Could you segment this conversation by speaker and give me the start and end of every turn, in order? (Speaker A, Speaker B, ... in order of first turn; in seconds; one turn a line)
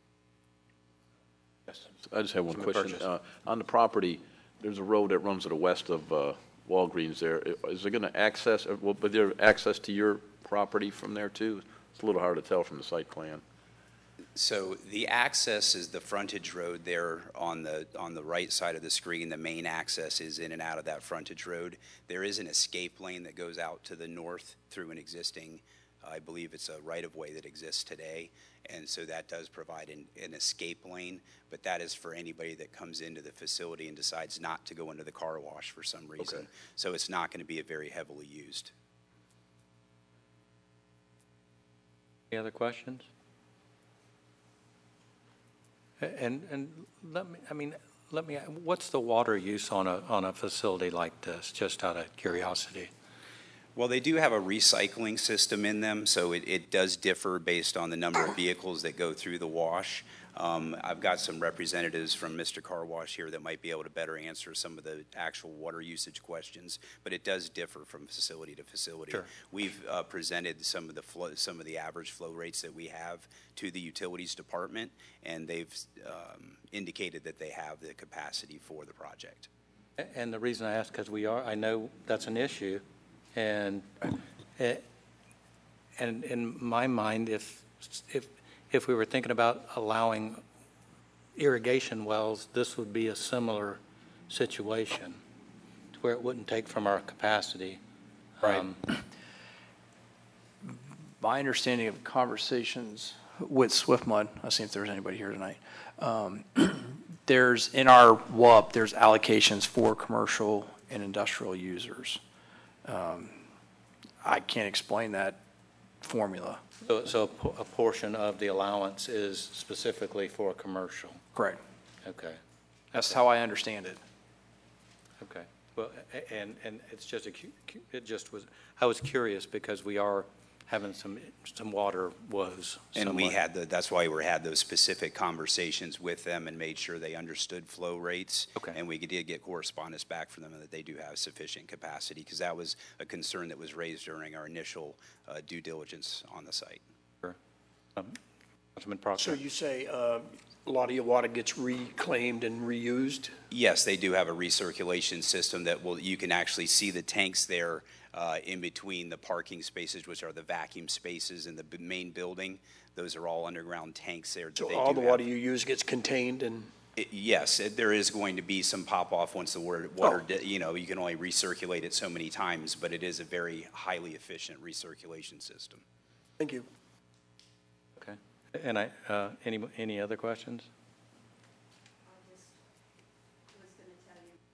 Speaker A: 2.0-13.4
Speaker B: 2.5-3.0
Speaker C: 14.4-38.7
Speaker B: 42.3-43.1
Speaker B: 46.0-52.9
Speaker C: 53.8-79.5
Speaker B: 80.0-82.8
Speaker B: 83.3-84.8
Speaker B: 86.0-90.4
Speaker B: 91.4-95.2
Speaker B: 95.9-97.8
Speaker B: 98.4-98.8
Speaker D: 100.7-112.2
Speaker D: 112.8-113.3
Speaker D: 114.2-115.4
Speaker D: 116.0-116.6
Speaker B: 116.8-121.2
Speaker B: 122.0-122.4
Speaker D: 123.0-124.0
Speaker B: 125.2-133.4
Speaker C: 132.9-146.8
Speaker B: 148.8-149.4
Speaker E: 149.2-153.4
Speaker C: 153.5-165.2
Speaker E: 164.6-166.7
Speaker C: 167.0-175.8
Speaker E: 176.4-176.7
Speaker B: 178.0-180.7